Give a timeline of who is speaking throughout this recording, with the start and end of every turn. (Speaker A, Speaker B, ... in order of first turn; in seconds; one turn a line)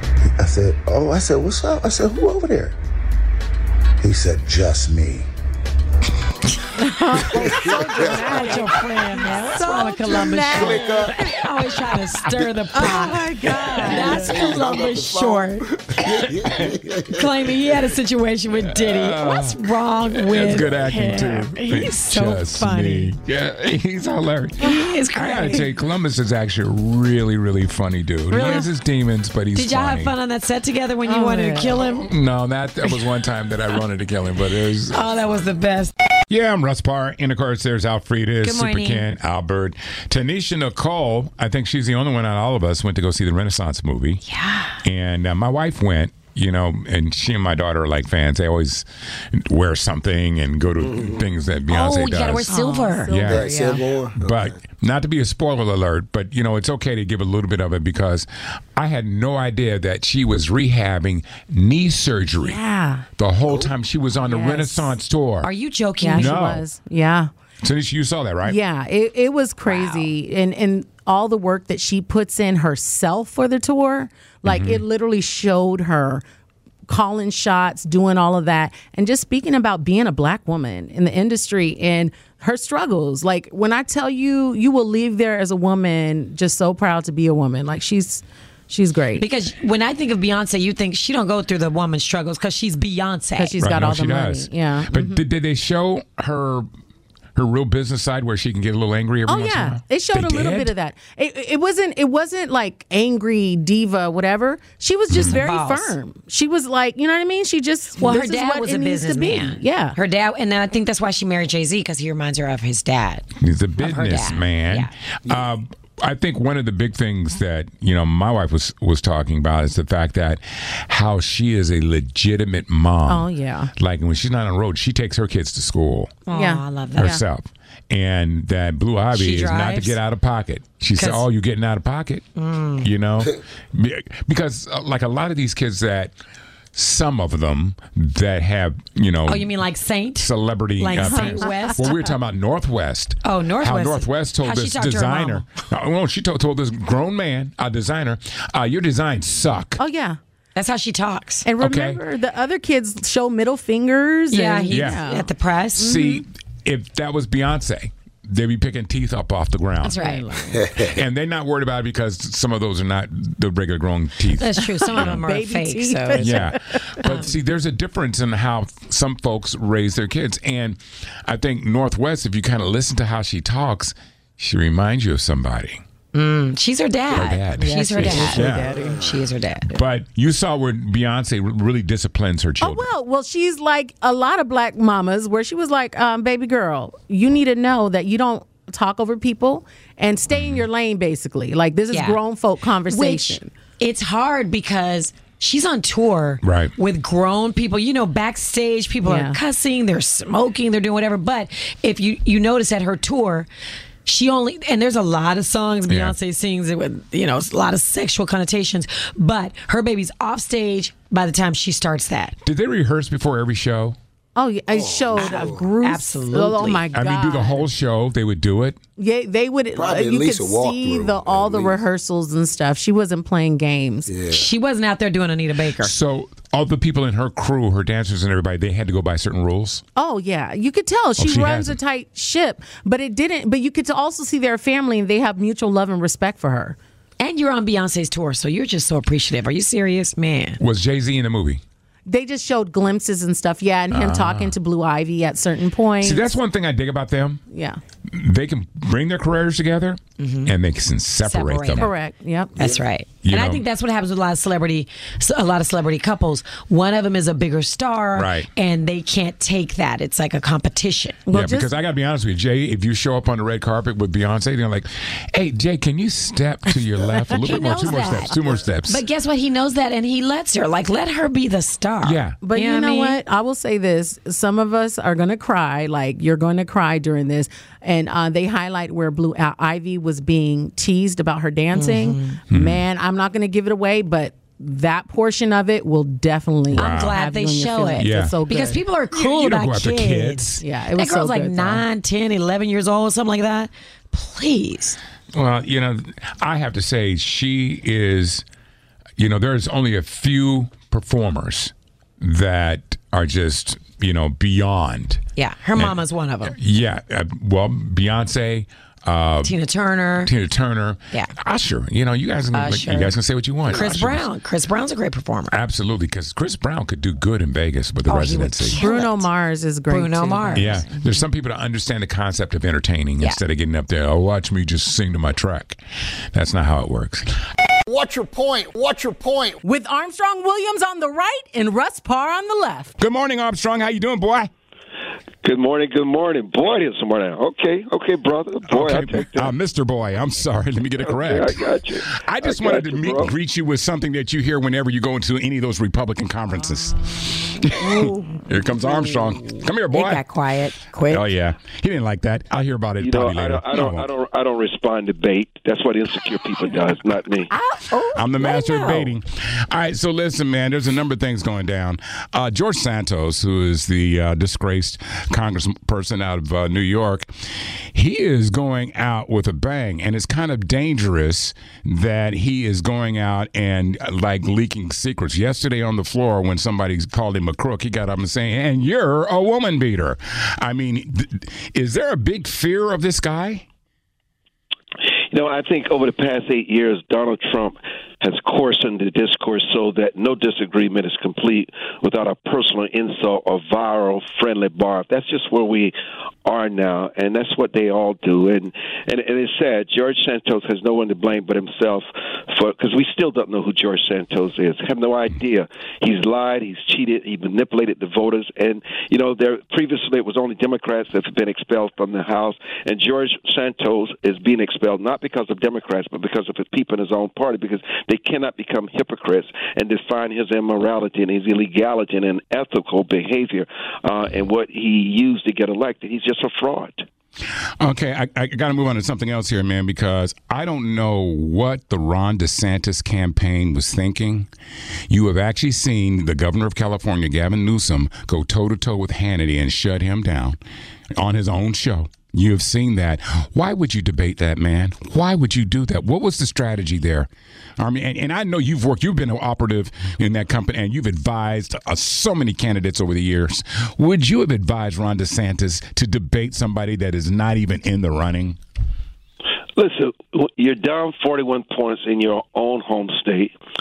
Speaker A: 0.2-2.8
Speaker A: 4.0-5.3
Speaker B: 6.8-11.3
Speaker C: 7.3-8.6
Speaker D: 7.4-16.3
Speaker C: 10.4-11.2
Speaker B: 12.8-14.5
Speaker C: 13.8-17.3
Speaker D: 17.1-23.1
Speaker E: 18.6-30.1
Speaker D: 24.6-25.7
Speaker D: 28.3-28.7
Speaker D: 29.6-32.1
Speaker B: 31.1-31.8
Speaker E: 31.9-35.0
Speaker D: 34.9-35.9
Speaker E: 36.3-44.2
Speaker D: 38.4-39.0
Speaker D: 44.3-44.8
Speaker E: 44.8-52.5
Speaker C: 50.8-51.2
Speaker D: 51.7-53.1
Speaker B: 52.5-53.9
Speaker E: 53.1-53.5
Speaker C: 53.2-54.6
Speaker E: 54.2-62.6
Speaker B: 62.4-63.0
Speaker E: 63.2-65.5
Speaker C: 63.5-63.7
Speaker B: 64.3-64.9
Speaker D: 65.4-66.3
Speaker B: 66.0-67.3
Speaker E: 66.2-66.6
Speaker E: 67.6-68.6
Speaker B: 68.4-76.2
Speaker D: 69.7-70.1
Speaker E: 74.5-74.8
Speaker B: 76.9-89.2
Speaker D: 89.2-93.6
Speaker B: 93.4-95.2
Speaker E: 93.6-96.7
Speaker E: 97.4-100.7
Speaker B: 99.3-110.0
Speaker E: 105.1-105.4
Speaker D: 105.2-106.0
Speaker D: 108.0-114.9
Speaker E: 113.4-126.2
Speaker B: 123.1-123.7
Speaker D: 126.3-127.2
Speaker B: 126.3-127.2
Speaker E: 127.0-132.3
Speaker D: 129.1-130.0
Speaker D: 130.9-131.3
Speaker D: 132.4-132.9
Speaker E: 132.8-136.1
Speaker E: 136.7-139.5
Speaker D: 139.3-142.1
Speaker E: 140.2-149.8
Speaker B: 141.1-141.7
Speaker D: 143.2-145.4
Speaker B: 149.8-150.2
Speaker D: 150.6-151.5
Speaker B: 151.4-155.3
Speaker E: 151.6-152.0
Speaker D: 154.3-155.9
Speaker E: 154.7-155.0
Speaker E: 155.8-160.0
Speaker B: 155.8-156.2
Speaker D: 159.8-160.3
Speaker B: 160.0-160.6
Speaker C: 160.5-161.0
Speaker E: 160.8-165.2
Speaker D: 164.4-167.3
Speaker B: 164.8-166.8
Speaker E: 166.2-175.8
Speaker D: 176.1-179.7
Speaker E: 177.1-178.8
Speaker B: 177.6-179.1
Speaker E: 179.7-182.9
Speaker B: 182.6-193.5
Speaker E: 190.3-190.7
Speaker D: 191.9-192.2
Speaker D: 192.9-203.5
Speaker E: 196.4-196.7
Speaker B: 199.0-199.4
Speaker D: 204.1-212.4
Speaker E: 205.9-206.2
Speaker E: 212.4-214.0
Speaker B: 214.4-217.7
Speaker C: 214.7-215.7
Speaker D: 215.2-216.8
Speaker E: 216.9-218.8
Speaker B: 219.0-224.1
Speaker C: 219.8-221.8
Speaker C: 224.1-224.5
Speaker D: 224.3-225.9
Speaker E: 225.8-229.8
Speaker B: 230.0-236.8
Speaker E: 231.2-231.8
Speaker D: 237.2-240.6
Speaker E: 240.6-241.6
Speaker B: 242.1-246.2
Speaker E: 243.9-244.5
Speaker E: 246.0-247.4
Speaker B: 247.5-247.8
Speaker E: 248.1-251.9
Speaker D: 250.2-250.5
Speaker D: 251.2-251.9
Speaker B: 251.8-252.5
Speaker D: 252.6-261.2
Speaker E: 253.2-253.6
Speaker E: 258.1-258.5
Speaker B: 261.3-261.7
Speaker E: 261.3-269.0
Speaker B: 267.4-268.5
Speaker D: 267.4-273.2
Speaker E: 272.0-272.4
Speaker B: 272.4-288.8
Speaker D: 281.7-282.4
Speaker E: 282.5-282.8
Speaker E: 286.7-287.2
Speaker D: 286.7-295.0
Speaker E: 288.0-288.4
Speaker E: 289.1-290.6
Speaker B: 290.6-291.8
Speaker E: 295.3-298.4
Speaker E: 299.2-305.2
Speaker D: 305.4-306.6
Speaker E: 305.8-309.6
Speaker D: 309.4-310.3
Speaker E: 310.2-314.3
Speaker D: 312.5-315.6
Speaker E: 315.5-318.8
Speaker D: 318.1-319.3
Speaker B: 318.8-320.9
Speaker D: 319.9-320.9
Speaker E: 320.5-325.8
Speaker E: 326.3-327.3
Speaker C: 327.9-329.6
Speaker B: 329.6-332.9
Speaker E: 333.0-334.5
Speaker F: 335.4-339.5
Speaker E: 338.7-350.2
Speaker F: 341.0-343.4
Speaker D: 347.8-349.4
Speaker D: 349.9-351.3
Speaker E: 351.1-354.1
Speaker F: 353.0-357.5
Speaker D: 357.5-359.1
Speaker E: 358.1-367.3
Speaker E: 367.9-383.6
Speaker F: 385.3-427.1
Speaker E: 427.8-434.5
Speaker E: 435.1-440.6
Speaker E: 441.1-458.6
Speaker F: 459.8-463.6